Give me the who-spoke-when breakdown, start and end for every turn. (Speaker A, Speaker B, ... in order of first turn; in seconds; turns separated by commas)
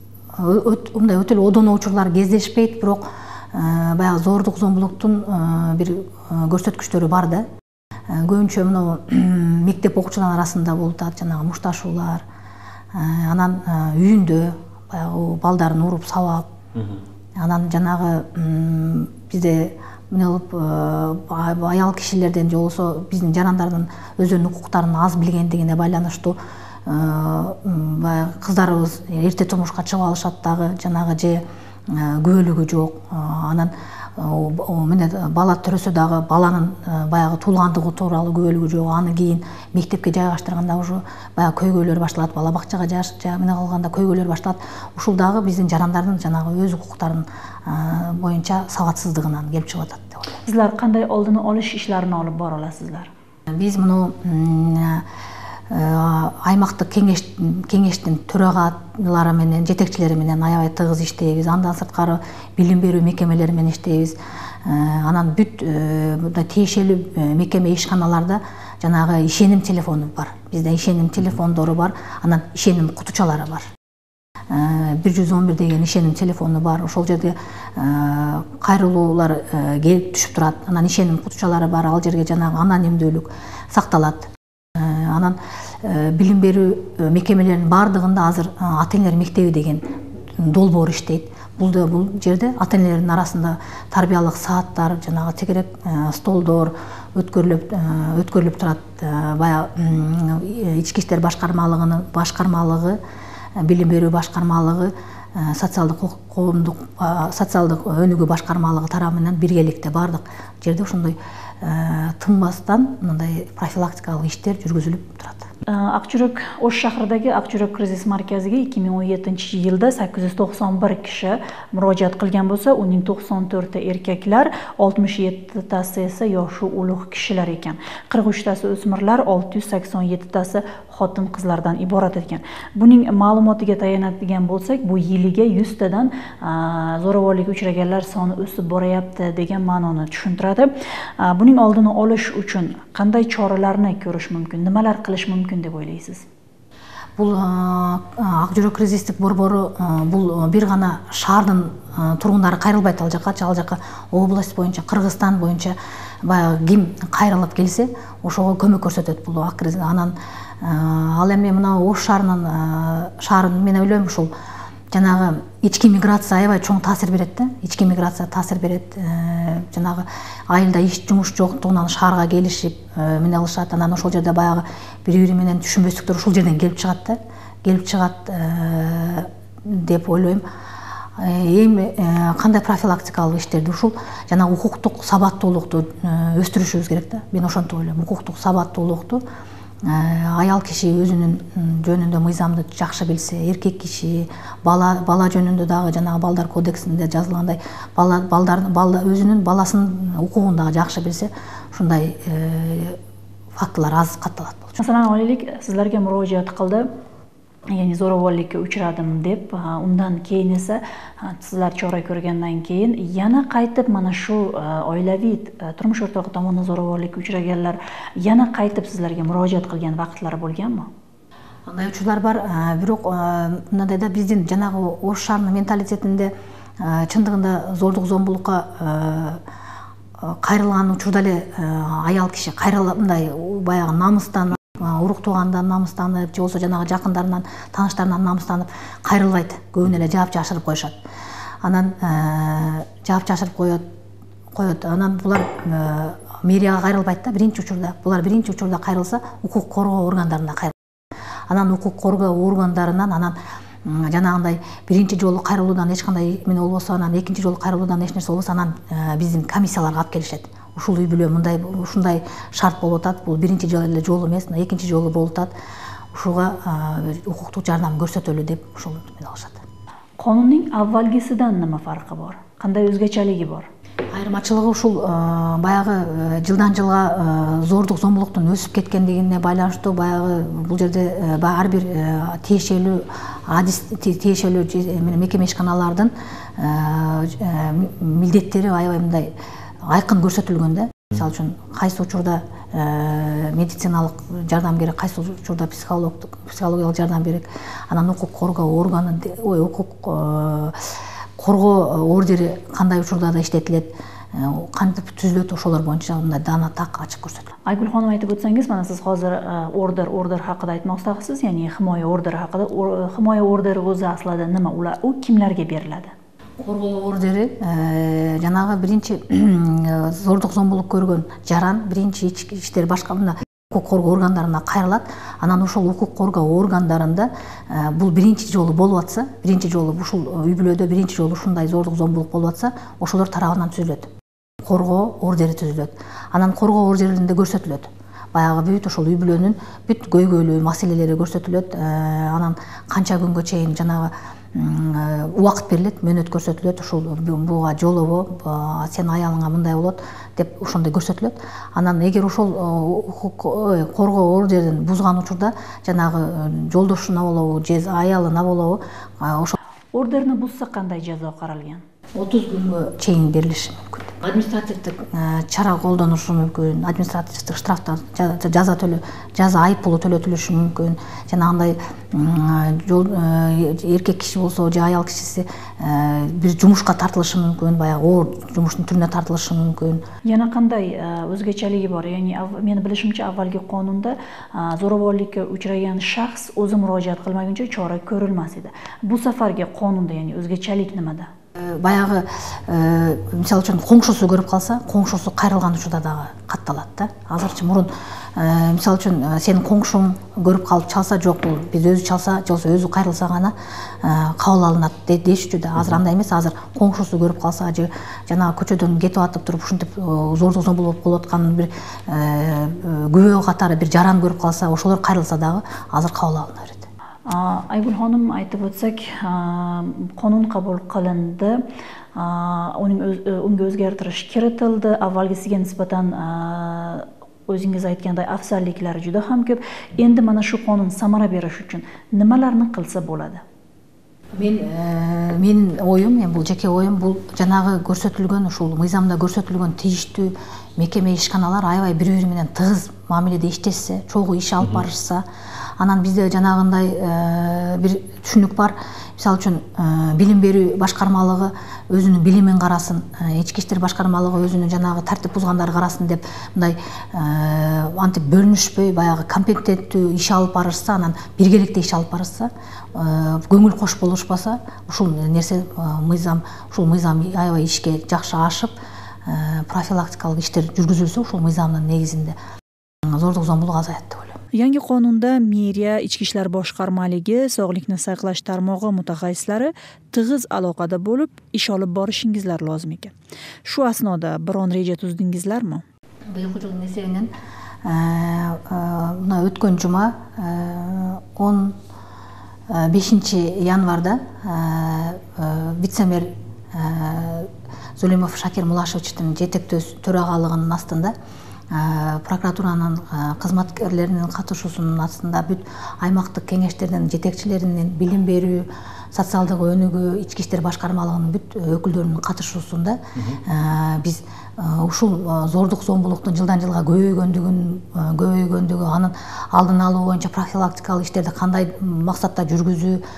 Speaker A: 0.3-7.5, Speaker A: 8.1-12.2, Speaker A: 12.9-50.4, Speaker B: 50.4-53.1, Speaker A: 53.5-55.1, Speaker A: 55.7-73.7, Speaker A: 74.5-103.0, Speaker A: 103.6-115.5, Speaker B: 115.7-146.2, Speaker A: 147.2-164.3, Speaker A: 164.9-180.4, Speaker A: 181.2-189.2, Speaker A: 189.8-203.0, Speaker A: 203.6-204.8, Speaker B: 204.8-206.9, Speaker B: 207.7-220.9, Speaker A: 221.7-229.4, Speaker A: 230.2-240.9, Speaker A: 241.6-243.8, Speaker A: 244.5-250.7, Speaker A: 251.5-265.5, Speaker A: 266.1-269.6, Speaker B: 270.2-273.7, Speaker A: 274.1-289.3, Speaker A: 289.9-307.5, Speaker B: 307.6-316.1, Speaker A: 316.6-334.1, Speaker A: 334.6-359.6, Speaker B: 359.9-361.8, Speaker A: 362.1-380.0, Speaker B: 380.2-391.3, Speaker A: 391.6-416.9, Speaker B: 417.3-421.6, Speaker B: 422.1-433.4, Speaker A: 434.4-445.2, Speaker A: 445.8-468.7, Speaker A: 469.2-472.4, Speaker A: 473.1-474.4, Speaker B: 474.5-483.1, Speaker B: 483.6-485.8, Speaker A: 486.3-487.3, Speaker A: 487.8-491.8, Speaker A: 492.7-501.1, Speaker A: 501.7-523.0